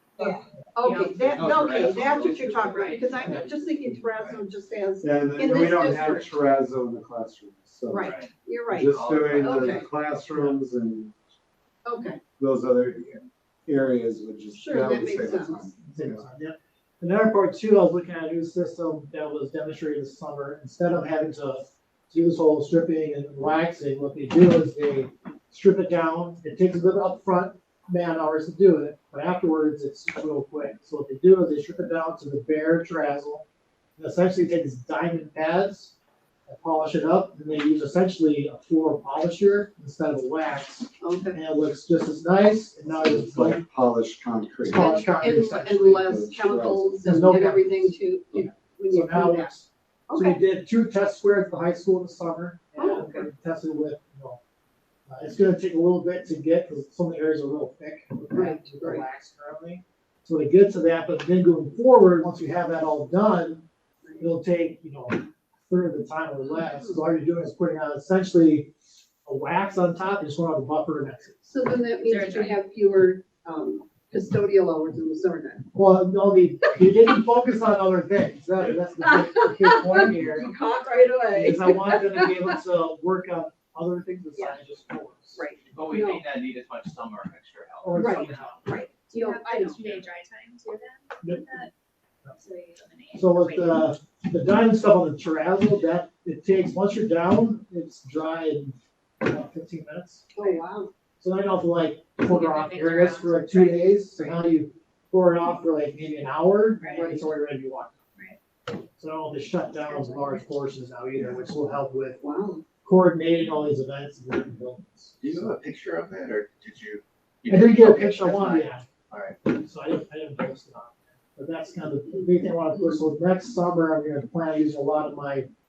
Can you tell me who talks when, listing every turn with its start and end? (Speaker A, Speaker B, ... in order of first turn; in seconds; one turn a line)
Speaker A: 0.2-6.3
Speaker B: 0.2-1.4
Speaker C: 1.2-3.3
Speaker B: 2.6-3.2
Speaker D: 5.0-8.2
Speaker A: 7.9-9.9
Speaker C: 8.0-8.3
Speaker D: 8.7-11.2
Speaker C: 8.9-9.9
Speaker A: 11.8-12.2
Speaker D: 12.4-16.2
Speaker A: 14.5-15.8
Speaker E: 15.9-33.5
Speaker E: 34.0-36.0
Speaker E: 36.5-43.6
Speaker A: 41.0-41.4
Speaker D: 42.9-44.9
Speaker E: 44.6-46.0
Speaker A: 44.7-49.5
Speaker D: 46.0-47.0
Speaker E: 47.0-54.4
Speaker A: 50.1-50.4
Speaker A: 52.8-53.3
Speaker E: 55.1-63.7
Speaker A: 58.3-59.0
Speaker E: 64.2-68.7
Speaker A: 66.6-67.0
Speaker E: 69.2-71.5
Speaker A: 71.5-75.7
Speaker B: 72.0-72.6
Speaker E: 75.8-80.5
Speaker A: 79.0-82.6
Speaker E: 81.3-85.4
Speaker A: 84.3-84.6
Speaker A: 85.3-86.2
Speaker C: 85.7-88.5
Speaker E: 87.8-88.7
Speaker A: 87.9-89.9
Speaker B: 89.1-91.7
Speaker E: 91.2-91.5
Speaker B: 92.3-93.9
Speaker E: 93.1-100.3
Speaker A: 100.3-100.9
Speaker E: 101.2-108.0
Speaker B: 102.2-104.3
Speaker B: 106.8-107.2
Speaker A: 106.9-107.3
Speaker E: 109.0-112.2
Speaker A: 112.2-112.6
Speaker E: 112.8-115.5
Speaker C: 115.2-119.4
Speaker E: 117.5-118.8
Speaker E: 119.5-125.5